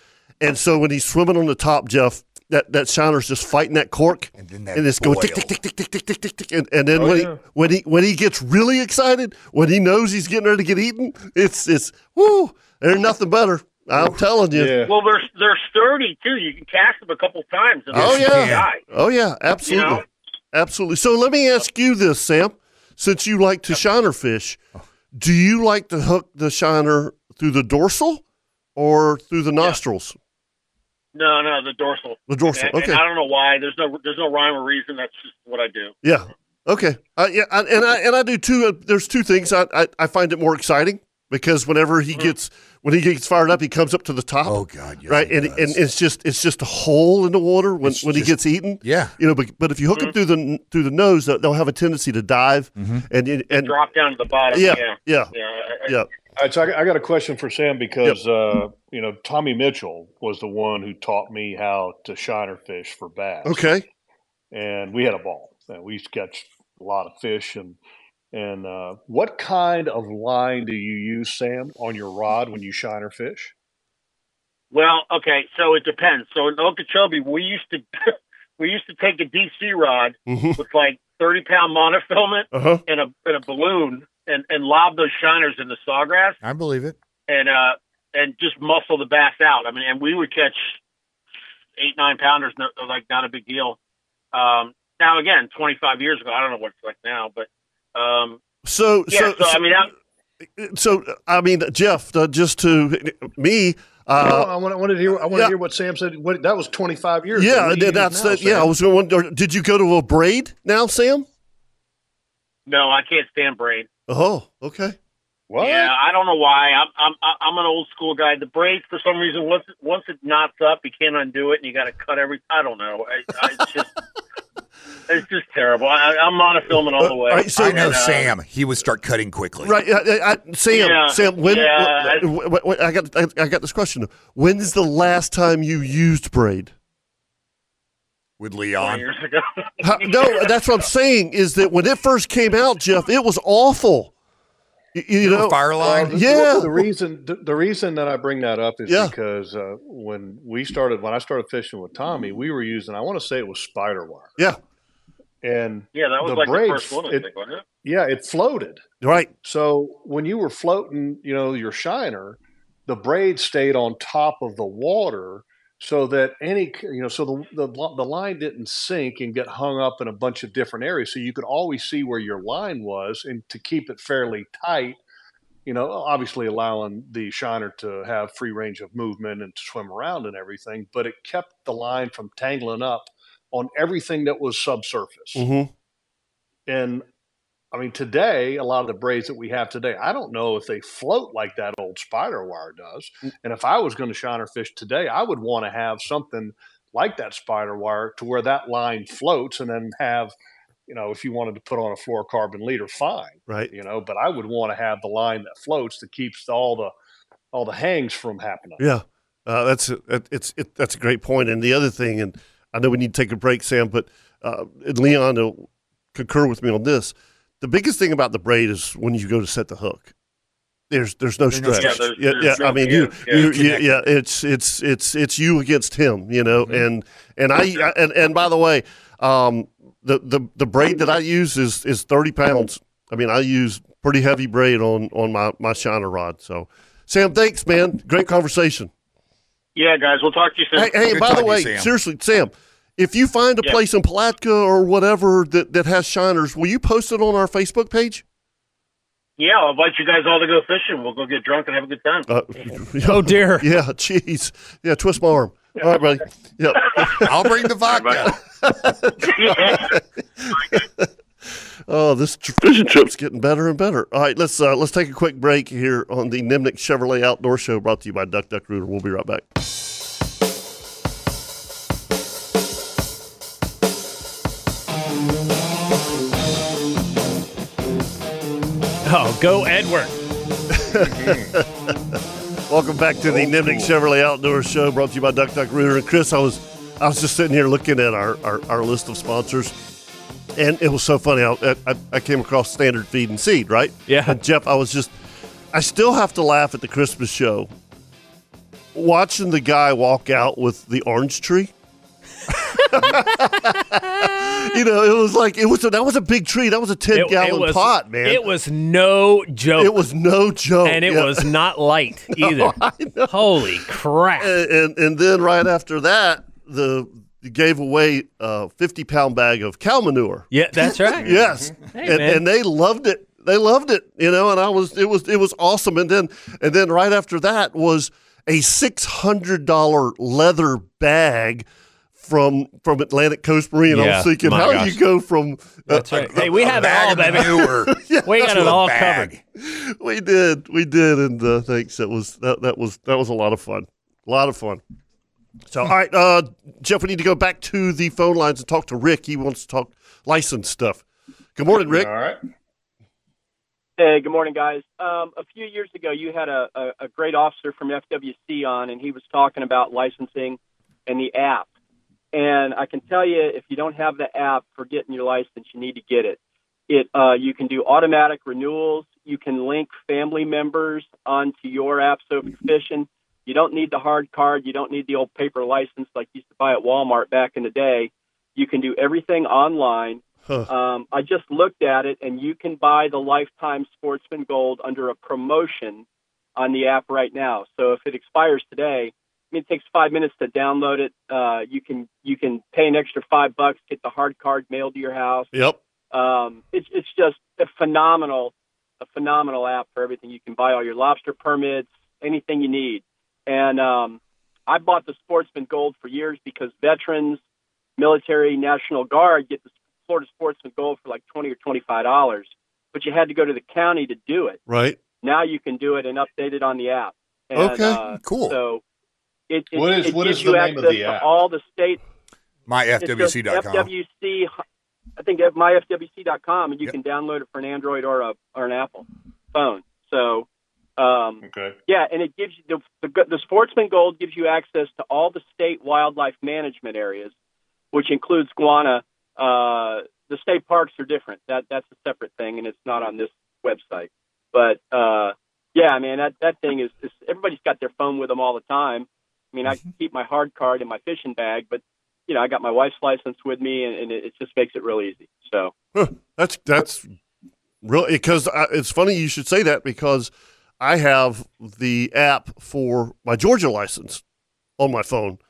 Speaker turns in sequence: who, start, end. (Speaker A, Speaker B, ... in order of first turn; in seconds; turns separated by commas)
Speaker A: 0.4-14.8, Speaker B: 4.4-5.5, Speaker C: 7.0-7.4, Speaker C: 14.5-14.9, Speaker D: 14.8-18.8, Speaker B: 17.9-18.7, Speaker A: 17.9-24.6, Speaker D: 19.6-20.0, Speaker A: 25.1-28.2, Speaker A: 28.8-30.1, Speaker D: 31.1-35.9, Speaker A: 32.3-33.0, Speaker A: 36.0-53.8, Speaker B: 44.4-45.8, Speaker B: 47.8-49.1, Speaker B: 52.8-53.0, Speaker D: 53.5-55.9, Speaker A: 54.5-55.3, Speaker C: 56.4-63.7, Speaker A: 63.4-63.8, Speaker C: 64.5-67.8, Speaker C: 68.3-73.5, Speaker D: 74.7-86.4, Speaker A: 80.3-80.6, Speaker A: 82.5-82.8, Speaker B: 86.4-87.0, Speaker D: 87.3-90.8, Speaker D: 91.8-93.8, Speaker D: 94.3-98.4, Speaker A: 98.6-99.7, Speaker D: 99.1-99.9, Speaker A: 100.5-104.5, Speaker C: 104.2-108.7, Speaker A: 107.3-111.2, Speaker D: 112.7-113.9, Speaker A: 114.1-115.0, Speaker C: 115.5-115.9, Speaker D: 115.6-123.9, Speaker D: 125.1-128.3, Speaker A: 126.9-128.2, Speaker B: 127.5-129.8, Speaker A: 129.6-136.7, Speaker D: 130.7-132.2, Speaker B: 138.4-139.1, Speaker D: 138.8-140.5, Speaker A: 139.8-144.1, Speaker A: 144.9-146.8, Speaker B: 145.2-146.2, Speaker C: 145.8-154.3, Speaker A: 148.9-149.1, Speaker C: 155.4-157.3, Speaker D: 155.9-157.6, Speaker C: 157.8-158.8, Speaker A: 159.0-159.3, Speaker C: 159.4-175.0, Speaker C: 175.7-185.4, Speaker A: 185.3-185.7, Speaker C: 186.7-187.0, Speaker C: 187.7-200.3, Speaker C: 200.9-206.9, Speaker C: 207.5-208.8, Speaker A: 208.8-220.1, Speaker A: 220.9-238.9, Speaker B: 221.5-224.0, Speaker D: 221.7-223.5, Speaker B: 226.6-226.9, Speaker D: 239.7-240.9, Speaker A: 240.8-248.2, Speaker B: 241.0-241.9, Speaker D: 249.4-252.3, Speaker A: 252.3-257.5, Speaker E: 253.0-253.7, Speaker B: 257.0-258.4, Speaker D: 257.9-258.2, Speaker A: 258.6-269.4, Speaker D: 259.2-259.9, Speaker E: 279.0-280.2, Speaker A: 280.7-289.8, Speaker C: 280.9-281.6, Speaker C: 283.2-283.9, Speaker A: 290.6-295.1, Speaker E: 294.1-294.4, Speaker A: 295.7-297.7, Speaker A: 298.9-301.7, Speaker A: 302.8-308.4, Speaker E: 307.1-310.0, Speaker A: 309.7-311.6, Speaker E: 310.8-314.5, Speaker A: 312.3-313.8, Speaker A: 314.4-331.6, Speaker E: 320.5-321.4, Speaker C: 321.2-321.7, Speaker E: 321.9-322.4, Speaker A: 332.2-338.8, Speaker E: 333.9-335.0, Speaker E: 335.9-339.3, Speaker B: 336.1-339.4, Speaker A: 339.6-344.8, Speaker A: 345.7-351.0, Speaker A: 351.6-352.1, Speaker C: 351.8-352.4, Speaker F: 354.0-361.7, Speaker F: 362.3-366.4, Speaker F: 366.9-386.0, Speaker F: 386.6-395.5, Speaker A: 395.5-395.8, Speaker F: 396.1-407.4, Speaker F: 408.0-414.6, Speaker A: 414.7-415.0, Speaker F: 415.2-418.8, Speaker A: 417.5-418.0, Speaker B: 418.2-418.6, Speaker F: 419.5-422.0, Speaker C: 419.7-421.3, Speaker B: 422.7-423.9, Speaker F: 423.0-424.5, Speaker F: 425.2-430.4, Speaker F: 431.0-437.3, Speaker C: 431.4-431.8, Speaker F: 437.9-455.7, Speaker A: 455.9-457.1, Speaker A: 457.8-464.2, Speaker A: 464.8-465.4